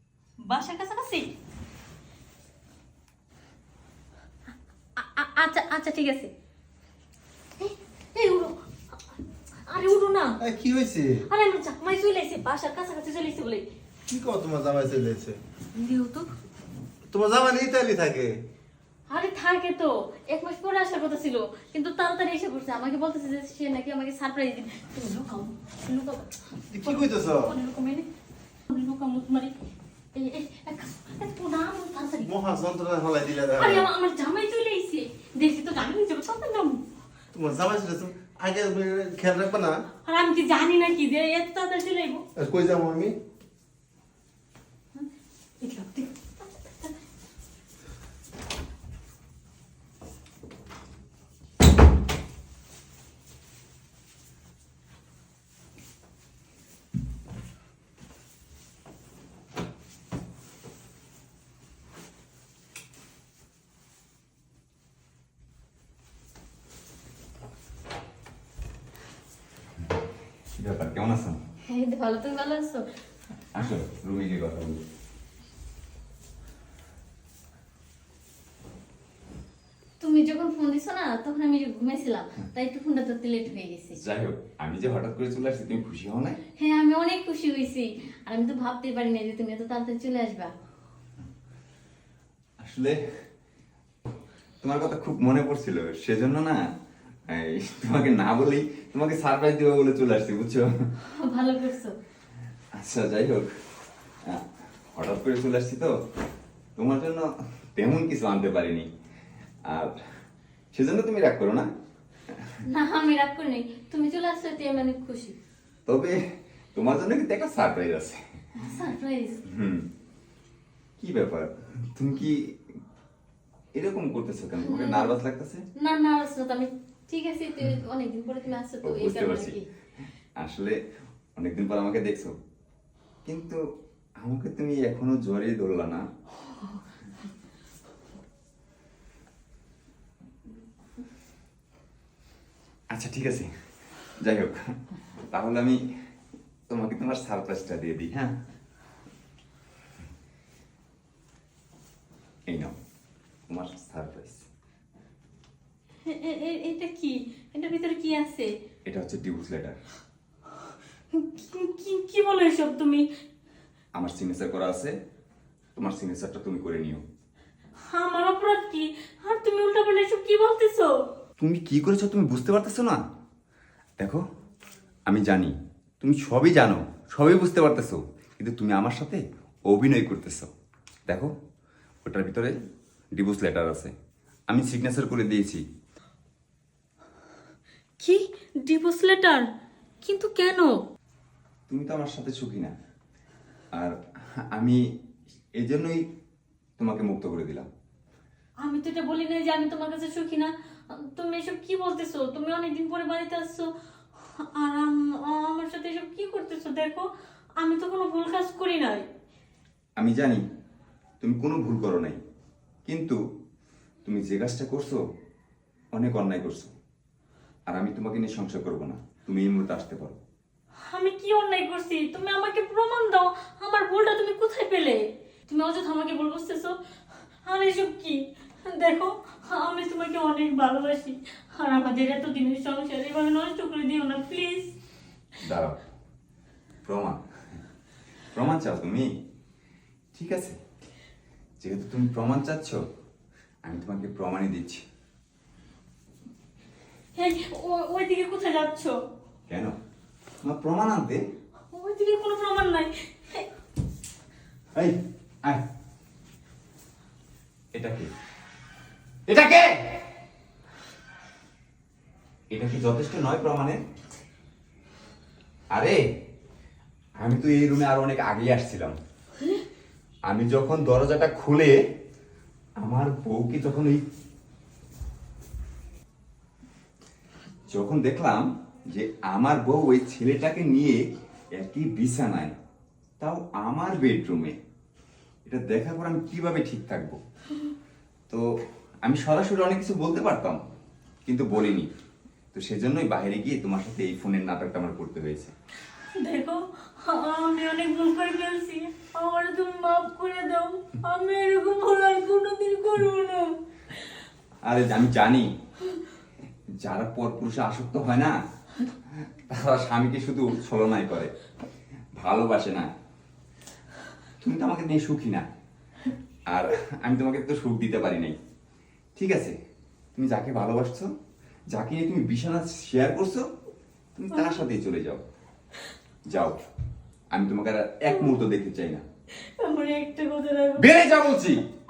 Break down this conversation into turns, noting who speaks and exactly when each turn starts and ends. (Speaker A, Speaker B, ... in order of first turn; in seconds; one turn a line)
Speaker A: 0.4-1.3
Speaker A: 5.0-6.3
Speaker A: 7.6-8.6
Speaker A: 9.7-10.4
Speaker B: 10.4-11.2
Speaker A: 11.3-13.6
Speaker B: 14.1-15.4
Speaker A: 15.7-16.3
Speaker B: 17.1-18.4
Speaker A: 19.1-28.1
Speaker B: 26.7-27.5
Speaker A: 28.7-29.5
Speaker A: 30.1-32.3
Speaker B: 32.2-33.9
Speaker A: 33.4-36.8
Speaker B: 37.3-39.8
Speaker A: 40.0-42.2
Speaker B: 42.4-43.2
Speaker A: 45.6-46.9
Speaker C: 70.5-71.4
Speaker A: 71.7-72.8
Speaker C: 73.5-74.8
Speaker A: 80.0-84.0
Speaker C: 83.9-86.4
Speaker A: 86.6-90.5
Speaker C: 92.6-93.0
Speaker C: 94.0-96.6
Speaker C: 97.3-100.7
Speaker A: 101.2-101.9
Speaker C: 102.7-103.5
Speaker C: 104.2-105.9
Speaker C: 106.8-108.9
Speaker C: 109.7-110.0
Speaker C: 110.7-111.7
Speaker A: 112.7-115.3
Speaker C: 115.8-118.2
Speaker A: 118.6-119.4
Speaker C: 119.5-119.9
Speaker C: 121.0-122.7
Speaker C: 123.7-125.6
Speaker A: 124.6-125.1
Speaker A: 125.8-129.7
Speaker C: 128.8-129.6
Speaker C: 130.4-130.8
Speaker C: 131.4-132.3
Speaker C: 133.2-133.6
Speaker C: 134.2-136.1
Speaker C: 142.9-143.5
Speaker C: 144.2-145.8
Speaker C: 146.7-148.3
Speaker C: 152.5-152.8
Speaker C: 153.5-154.5
Speaker A: 156.1-158.5
Speaker C: 158.8-159.8
Speaker A: 161.1-163.1
Speaker C: 163.9-164.9
Speaker C: 165.8-167.0
Speaker A: 167.8-170.9
Speaker C: 171.4-173.0
Speaker C: 175.1-180.5
Speaker C: 182.1-182.5
Speaker C: 183.2-183.9
Speaker C: 184.5-185.6
Speaker A: 188.0-189.5
Speaker A: 190.0-190.8
Speaker C: 191.7-192.7
Speaker C: 194.5-194.8
Speaker C: 195.6-196.1
Speaker C: 196.8-197.7
Speaker A: 198.6-209.1
Speaker C: 210.0-210.4
Speaker C: 211.2-212.2
Speaker C: 212.9-213.2
Speaker C: 214.1-215.0
Speaker C: 215.9-216.7
Speaker C: 217.7-220.2
Speaker A: 220.9-226.8
Speaker A: 227.4-234.7
Speaker C: 235.4-235.8
Speaker C: 236.8-237.2
Speaker C: 238.3-239.2
Speaker C: 240.2-240.6
Speaker C: 241.6-242.8
Speaker C: 243.7-244.8
Speaker A: 247.2-248.9
Speaker C: 249.5-249.8
Speaker C: 250.4-251.2
Speaker A: 251.7-253.5
Speaker C: 254.8-255.7
Speaker C: 257.7-258.1
Speaker C: 259.3-260.0
Speaker C: 262.5-263.8
Speaker C: 265.7-266.0
Speaker C: 267.2-268.9
Speaker C: 270.3-271.8
Speaker C: 272.8-274.0
Speaker C: 277.7-281.0
Speaker C: 281.5-282.6
Speaker C: 283.2-284.6
Speaker C: 285.4-287.2
Speaker C: 289.0-290.6
Speaker C: 291.2-291.9
Speaker C: 292.5-295.5
Speaker A: 296.2-303.5
Speaker C: 304.6-305.5
Speaker C: 306.8-308.4
Speaker C: 309.1-311.3
Speaker C: 312.1-312.9
Speaker C: 314.4-315.4
Speaker C: 316.5-318.4
Speaker C: 319.1-319.6
Speaker C: 320.1-321.1
Speaker C: 321.7-323.4
Speaker C: 324.1-325.2
Speaker C: 326.3-326.7
Speaker C: 327.3-329.0
Speaker A: 329.4-331.0
Speaker C: 330.8-331.6